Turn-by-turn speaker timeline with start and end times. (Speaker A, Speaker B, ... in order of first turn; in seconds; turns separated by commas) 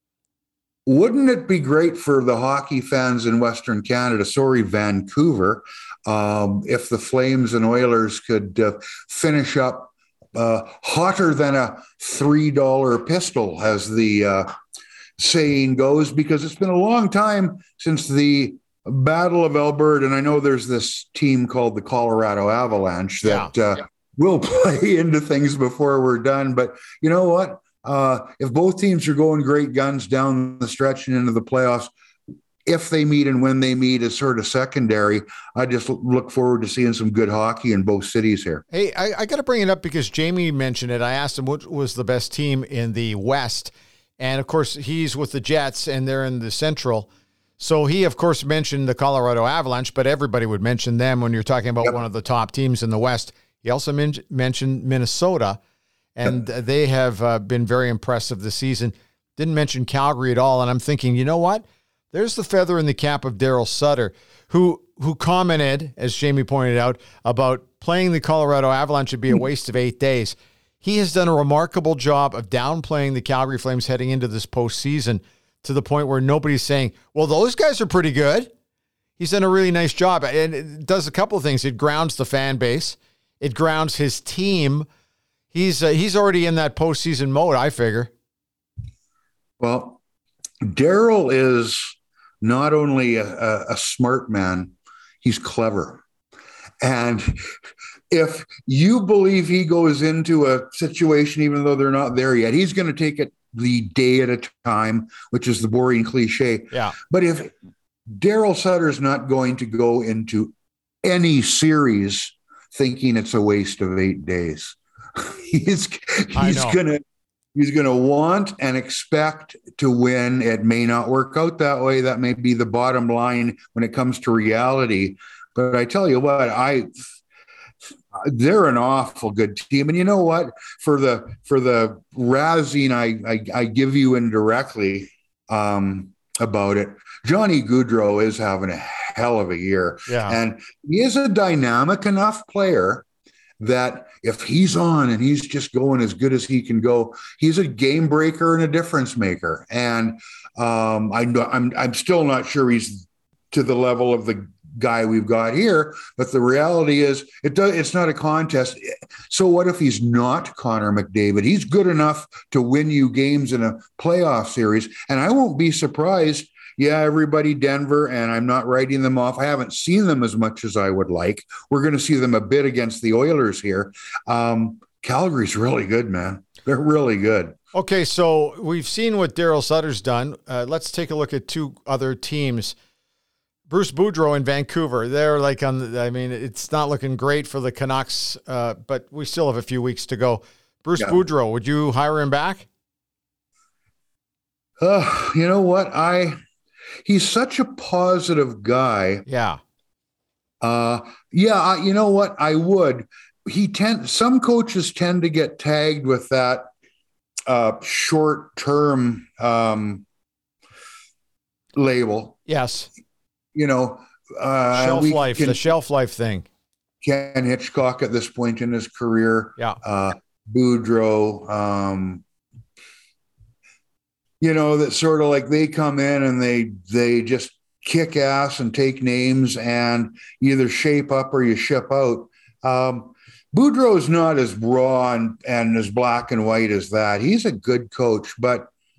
Speaker A: 0.8-14.5, Speaker A: 15.2-31.9, Speaker B: 23.2-23.5, Speaker A: 32.6-38.6, Speaker B: 38.7-47.1, Speaker B: 47.6-55.6, Speaker B: 56.1-78.5, Speaker B: 79.2-84.9, Speaker B: 85.5-88.1, Speaker A: 89.6-90.0, Speaker A: 90.6-96.0, Speaker A: 96.8-97.5, Speaker A: 98.1-107.5, Speaker B: 106.7-107.0, Speaker A: 108.1-117.0, Speaker B: 116.3-116.8, Speaker A: 117.5-126.9, Speaker A: 128.1-143.0, Speaker B: 140.1-140.4, Speaker A: 143.6-177.6, Speaker B: 177.7-182.7, Speaker B: 183.7-192.7, Speaker A: 194.8-196.4, Speaker A: 197.0-199.2, Speaker B: 199.3-199.6, Speaker A: 200.6-206.7, Speaker A: 207.5-210.0, Speaker A: 211.8-212.4, Speaker B: 212.5-212.9, Speaker A: 213.5-215.6, Speaker B: 214.7-216.4, Speaker A: 217.0-222.2, Speaker A: 224.4-238.7